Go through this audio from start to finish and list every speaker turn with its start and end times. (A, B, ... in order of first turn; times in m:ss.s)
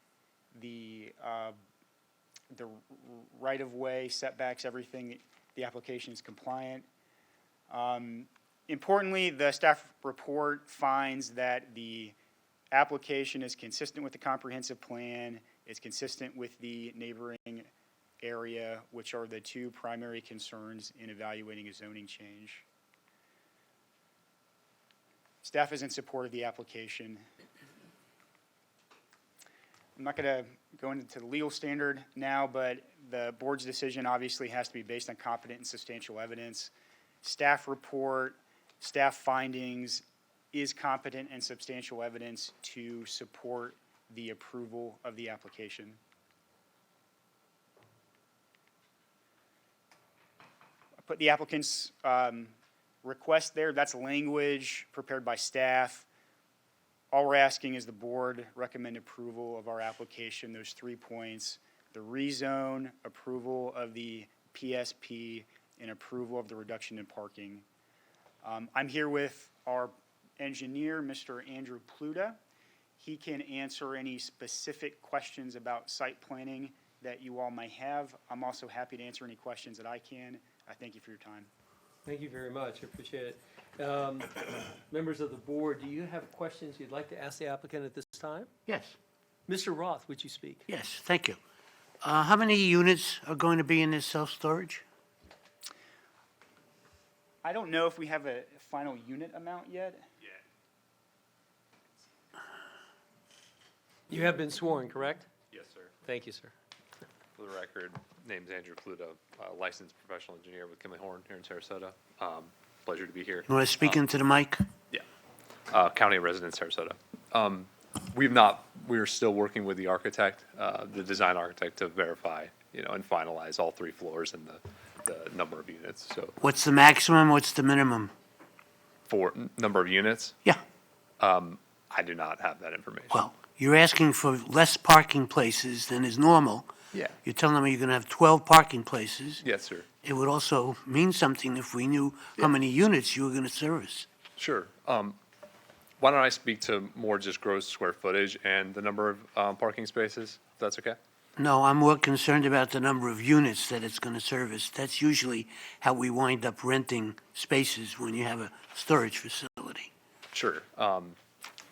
0:00.5-0:01.6 A
0:02.5-0:06.9 A
0:07.7-0:12.2 A
0:12.7-0:17.7 A
0:18.2-0:22.6 A
0:25.4-0:27.2 A
0:30.0-0:36.7 A
0:37.2-0:46.0 A
0:51.1-0:56.1 A
0:57.1-1:07.6 A
1:08.4-1:12.4 A
1:13.0-1:21.5 A
1:22.0-1:28.5 B
1:28.7-1:29.0 C
1:29.5-1:30.6 B
1:30.7-1:31.4 C
1:32.0-1:34.8 C
1:37.4-1:40.0 A
1:44.1-1:45.3 B
1:45.5-1:45.9 D
1:46.0-1:46.5 B
1:47.4-1:54.0 D
1:53.5-1:54.6 C
1:55.7-2:06.4 D
2:06.4-2:08.1 C
2:09.1-2:10.4 D
2:11.2-2:13.2 D
2:13.1-2:16.7 C
2:17.2-2:19.4 C
2:19.4-2:19.9 D
2:20.0-2:24.1 C
2:24.4-2:25.2 D
2:26.0-2:31.0 D
2:31.4-2:39.9 C
2:40.3-2:41.2 D